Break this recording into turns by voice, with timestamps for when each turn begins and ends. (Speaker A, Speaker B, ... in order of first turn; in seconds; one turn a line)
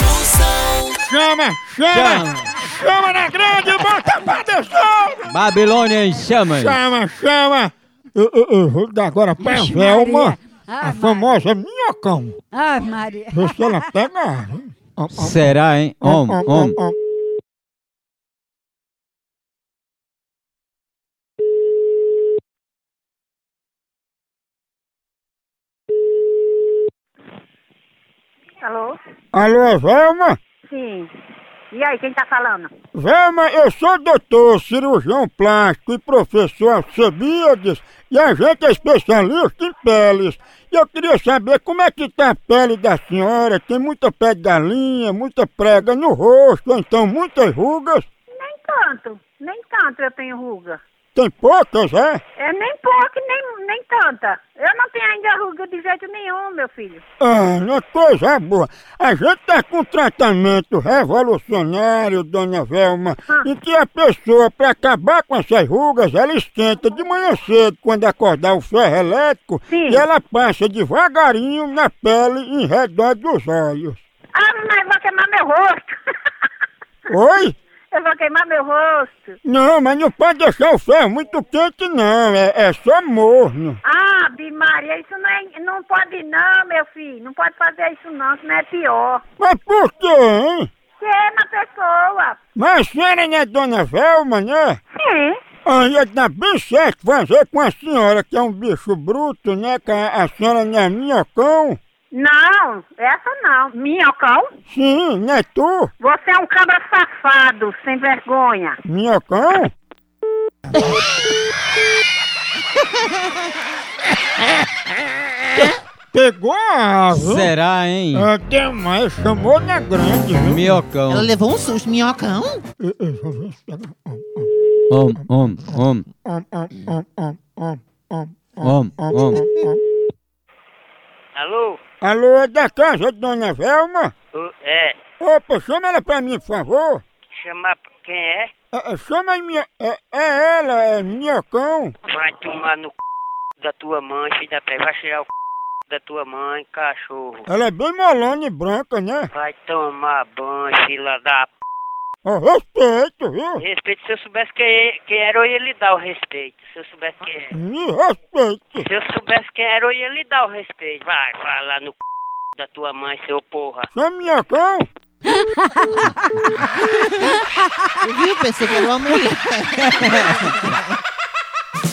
Speaker A: 1.0-5.3
Speaker B: 1.9-2.5
Speaker B: 5.3-6.7
Speaker A: 6.6-12.4
Speaker C: 9.4-11.4
Speaker C: 12.5-13.8
Speaker A: 13.3-15.4
Speaker B: 15.1-16.8
Speaker A: 16.0-16.9
Speaker D: 28.6-28.9
Speaker A: 29.3-30.4
Speaker D: 30.6-31.1
Speaker D: 31.7-32.7
Speaker A: 32.9-48.1
Speaker D: 48.4-50.8
Speaker A: 51.1-52.2
Speaker D: 52.4-57.0
Speaker A: 57.2-74.0
Speaker D: 69.7-70.0
Speaker D: 74.3-76.0
Speaker A: 77.1-77.5
Speaker D: 77.9-79.4
Speaker A: 79.4-83.8
Speaker D: 83.8-89.2
Speaker A: 89.4-90.7
Speaker D: 91.0-92.4
Speaker A: 92.5-94.8
Speaker D: 95.0-95.4
Speaker A: 95.6-101.8
Speaker D: 102.1-104.5
Speaker A: 104.7-105.9
Speaker D: 106.0-108.8
Speaker A: 108.8-109.7
Speaker A: 116.1-117.5
Speaker B: 117.1-118.3
Speaker A: 118.1-120.7
Speaker B: 120.4-121.3
Speaker E: 121.1-122.6
Speaker A: 122.8-124.5
Speaker B: 124.9-126.0
Speaker A: 126.2-129.8
Speaker B: 128.6-129.4
Speaker F: 131.3-131.8
Speaker A: 132.0-134.1
Speaker F: 134.3-134.9
Speaker A: 135.2-137.0
Speaker F: 137.3-138.5
Speaker A: 138.7-141.9
Speaker F: 142.1-142.9
Speaker F: 143.6-145.3
Speaker F: 145.9-147.5
Speaker A: 147.5-149.3
Speaker F: 149.3-151.5
Speaker A: 152.2-153.6
Speaker F: 153.6-157.5
Speaker A: 157.5-158.8
Speaker F: 158.8-161.9
Speaker F: 162.6-163.9
Speaker A: 163.9-164.9
Speaker E: 168.0-170.9